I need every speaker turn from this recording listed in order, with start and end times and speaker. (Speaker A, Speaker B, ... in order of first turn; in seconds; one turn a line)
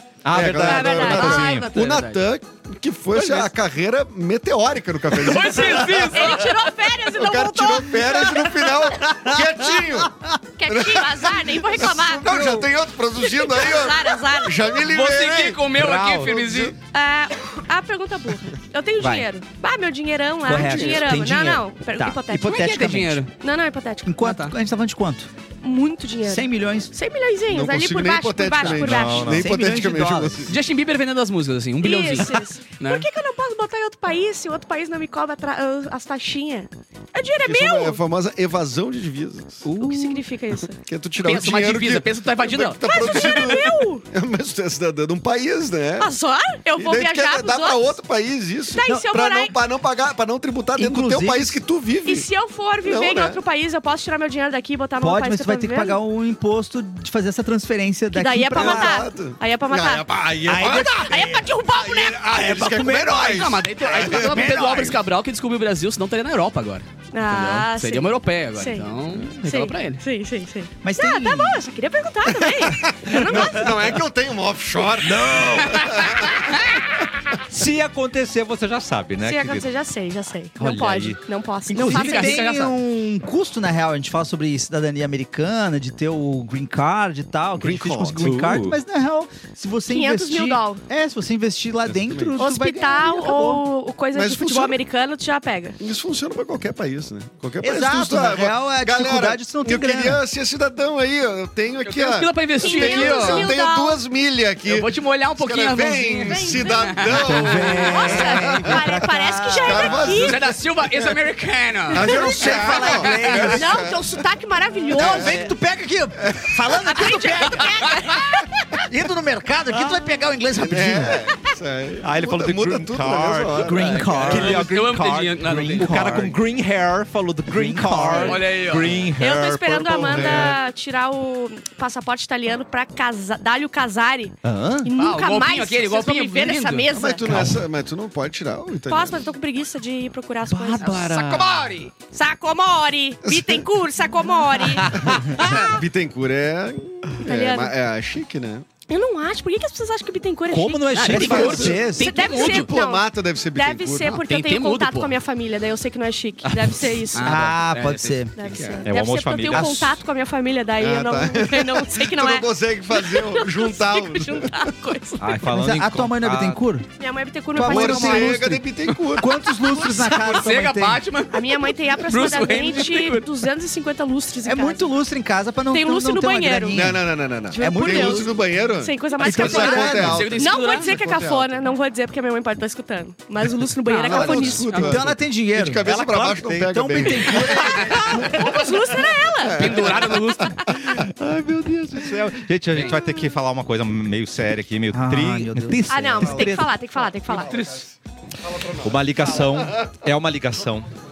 Speaker A: 0.2-1.7
Speaker B: 0.3-10.1
Speaker C: 0.6-1.8
Speaker D: 1.7-2.2
Speaker D: 5.1-6.6
Speaker C: 6.1-8.3
Speaker E: 8.0-10.4
Speaker C: 10.6-12.6
Speaker B: 10.7-16.8
Speaker E: 12.2-12.7
Speaker C: 13.2-14.8
Speaker D: 14.8-16.8
Speaker A: 15.8-16.4
Speaker C: 16.9-22.8
Speaker E: 20.4-23.2
Speaker B: 20.5-21.1
Speaker D: 22.4-23.3
Speaker C: 23.4-24.2
Speaker E: 24.0-25.3
Speaker D: 24.2-24.5
Speaker C: 25.6-29.4
Speaker E: 26.2-26.9
Speaker B: 27.5-30.5
Speaker A: 28.7-29.5
Speaker E: 29.2-30.5
Speaker D: 30.5-33.0
Speaker C: 31.8-38.0
Speaker B: 37.4-39.6
Speaker E: 39.6-40.2
Speaker C: 39.8-40.8
Speaker B: 40.8-46.1
Speaker D: 41.2-43.6
Speaker C: 42.8-44.0
Speaker C: 46.0-47.9
Speaker B: 46.8-52.3
Speaker C: 48.7-49.5
Speaker E: 50.8-51.6
Speaker C: 52.0-56.0
Speaker B: 52.8-53.4
Speaker E: 55.0-59.0
Speaker C: 58.1-60.1
Speaker B: 58.5-64.8
Speaker A: 60.1-60.9
Speaker E: 60.4-65.0
Speaker C: 60.8-62.2
Speaker D: 63.1-70.0
Speaker C: 67.1-73.7
Speaker E: 70.8-71.6
Speaker B: 72.3-76.7
Speaker A: 75.1-76.1
Speaker A: 77.5-79.7
Speaker C: 79.2-82.5
Speaker A: 80.6-81.2
Speaker E: 81.7-93.6
Speaker D: 81.7-82.8
Speaker B: 87.6-88.4
Speaker A: 88.2-88.8
Speaker C: 89.9-90.8
Speaker B: 91.9-92.4
Speaker C: 92.4-95.8
Speaker B: 94.1-94.8
Speaker B: 95.8-108.8
Speaker E: 97.6-100.2
Speaker D: 101.8-103.5
Speaker C: 102.6-104.0
Speaker D: 104.7-107.9
Speaker C: 106.2-110.5
Speaker E: 107.2-110.2
Speaker B: 109.5-111.2
Speaker D: 110.1-113.6
Speaker E: 111.9-113.9
Speaker B: 111.9-114.0
Speaker C: 112.0-112.3
Speaker C: 113.5-115.5
Speaker B: 114.9-115.5
Speaker E: 114.9-118.1
Speaker B: 116.2-116.6
Speaker C: 116.9-118.5
Speaker E: 118.8-121.3
Speaker B: 120.5-124.4
Speaker A: 122.0-130.6
Speaker E: 123.5-126.3
Speaker D: 123.8-126.2
Speaker E: 127.5-128.4
Speaker D: 128.1-129.1
Speaker C: 129.2-137.2
Speaker B: 130.1-130.6
Speaker A: 134.4-134.9
Speaker D: 135.0-136.9
Speaker B: 136.9-139.2
Speaker A: 137.2-137.7
Speaker C: 138.9-141.1
Speaker A: 140.5-141.6
Speaker D: 140.8-141.9
Speaker C: 142.1-145.7
Speaker B: 143.2-143.7
Speaker B: 144.9-148.7
Speaker C: 147.2-147.7
Speaker C: 148.9-157.4
Speaker A: 150.5-151.7
Speaker D: 150.9-152.8
Speaker E: 151.0-152.1
Speaker B: 151.2-154.2
Speaker D: 154.1-155.2
Speaker A: 156.5-157.0
Speaker D: 157.1-158.8
Speaker E: 157.2-158.3
Speaker C: 158.4-165.4
Speaker A: 158.8-160.0
Speaker B: 160.8-164.5
Speaker A: 165.2-166.6
Speaker E: 165.5-166.9
Speaker C: 167.0-168.4
Speaker E: 167.5-171.0
Speaker B: 167.6-169.3
Speaker C: 169.7-170.1
Speaker D: 169.8-173.3
Speaker C: 171.3-174.9
Speaker E: 174.4-178.3
Speaker C: 175.7-176.9
Speaker B: 176.7-181.6
Speaker C: 177.5-184.9
Speaker E: 179.2-180.3
Speaker D: 179.5-180.9
Speaker D: 183.8-185.1
Speaker B: 184.0-188.8
Speaker E: 184.8-188.4
Speaker A: 185.8-186.8
Speaker C: 187.7-190.0
Speaker B: 189.4-190.8
Speaker D: 189.5-190.6
Speaker A: 190.7-196.7
Speaker D: 192.7-193.0
Speaker E: 194.9-195.8
Speaker C: 195.9-197.6
Speaker B: 197.3-197.8
Speaker D: 197.3-197.8
Speaker B: 198.4-199.4
Speaker A: 198.8-200.9